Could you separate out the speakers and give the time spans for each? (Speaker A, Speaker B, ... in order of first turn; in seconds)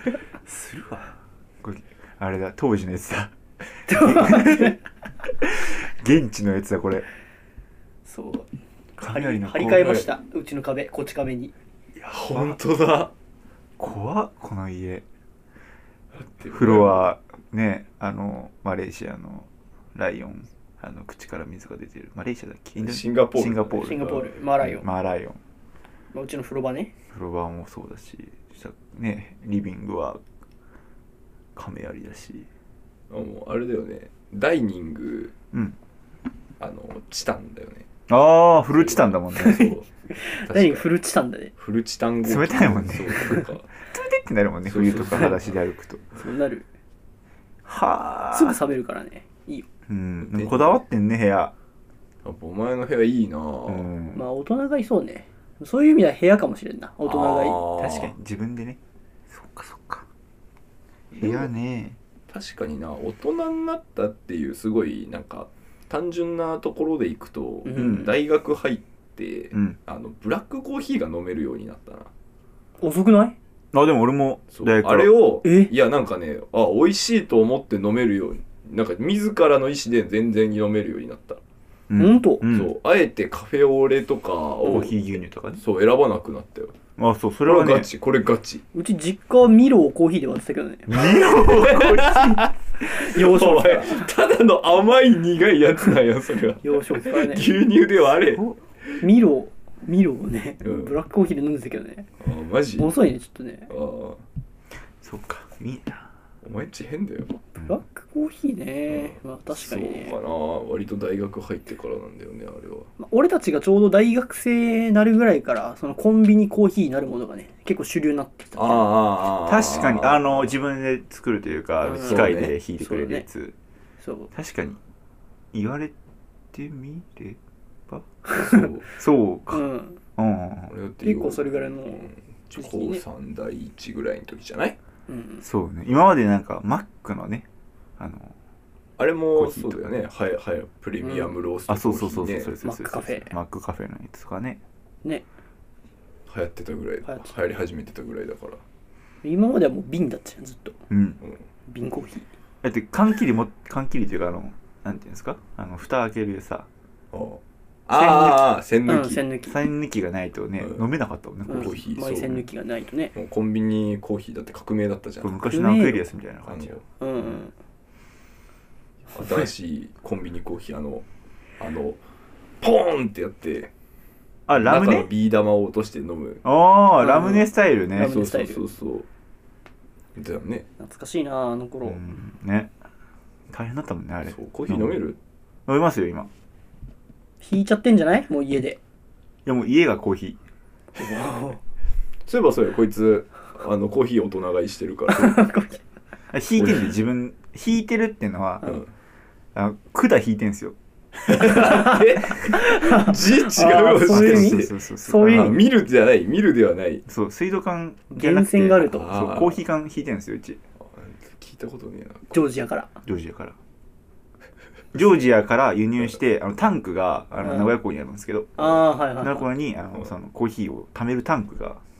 Speaker A: 0.4-3.3, 3.9-4.7, 5.4-7.0, 9.0-10.1, 12.3-12.6, 13.8-15.0, 16.5-24.1, 24.6-25.4, 27.1-30.2, 31.6-32.5, 35.5-35.8, 38.1-39.7, 42.2-46.0, 47.6-48.6, 49.9-51.5, 53.7-54.2, 57.8-60.0, 61.1-62.0, 67.8-68.1, 73.7-75.2, 81.9-82.7, 84.6-85.6, 87.0-87.9, 90.9-92.5, 105.0-106.1, 119.3-123.5, 124.3-124.8, 125.5-125.9, 126.5-128.1, 128.8-129.6, 130.2-130.7, 135.4-137.4, 138.0-138.3, 139.3-140.0, 141.7-144.6, 150.9-151.2, 152.6-156.7, 159.4-161.8, 165.2-166.8, 174.5-175.1, 176.4-178.2, 181.8-182.7, 183.5-185.0, 185.7-186.3, 189.4-190.4, 196.3-198.8, 199.5-200.7, 204.1-205.6, 207.1-210.6, 213.0-213.6, 214.9-221.8
Speaker B: 3.9-4.8, 8.1-8.5, 9.0-11.5, 23.8-24.9, 26.1-26.9, 39.3-41.5, 46.1-46.6, 48.3-49.6, 54.1-57.6, 67.6-68.1, 72.8-73.3, 75.4-75.7, 82.0-82.5, 88.7-91.0, 92.8-94.1, 96.6-97.5, 99.0-102.1, 102.8-103.7, 107.6-110.2, 113.0-118.9, 121.8-122.3, 122.8-123.2, 124.0-124.3, 128.3-128.6, 129.5-130.0, 131.0-133.0, 135.1-135.4, 141.0-141.3, 142.6-143.3, 147.1-147.3, 149.2-150.8, 151.7-152.2, 157.9-159.6, 161.5-163.1, 165.5-166.1, 167.0-167.5, 177.0-178.6, 180.8-182.0, 187.4-188.8, 191.0-191.6, 195.1-195.8, 201.6-202.0, 202.5-205.6, 208.1-209.1, 212.3-213.0, 217.4-217.7, 218.6-219.5
Speaker C: 12.0-13.1, 16.1-17.1, 22.8-24.4, 33.1-35.3, 36.6-37.9, 38.7-39.9, 40.5-40.9, 41.6-43.7, 44.6-45.6, 50.2-50.8, 52.2-53.9, 57.0-58.1, 62.3-72.1, 74.5-81.4, 82.5-85.0, 85.6-86.7, 87.5-88.6, 91.1-99.0, 100.6-100.9, 102.2-102.9, 103.7-104.2, 106.4-107.4, 108.9-112.9, 118.5-120.5, 121.9-122.5, 128.3-128.9, 130.7-134.8, 139.0-142.5, 146.3-148.6, 157.1-159.2, 160.6-160.8, 161.5-162.4, 163.1-165.4, 166.4-166.8, 169.1-171.0, 171.6-172.0, 172.6-173.7, 174.5-176.4, 178.0-179.1, 180.2-180.7, 184.2-185.2, 192.3-195.4, 196.6-196.9, 198.6-198.9, 201.2-207.0, 208.9-209.7, 210.8-212.5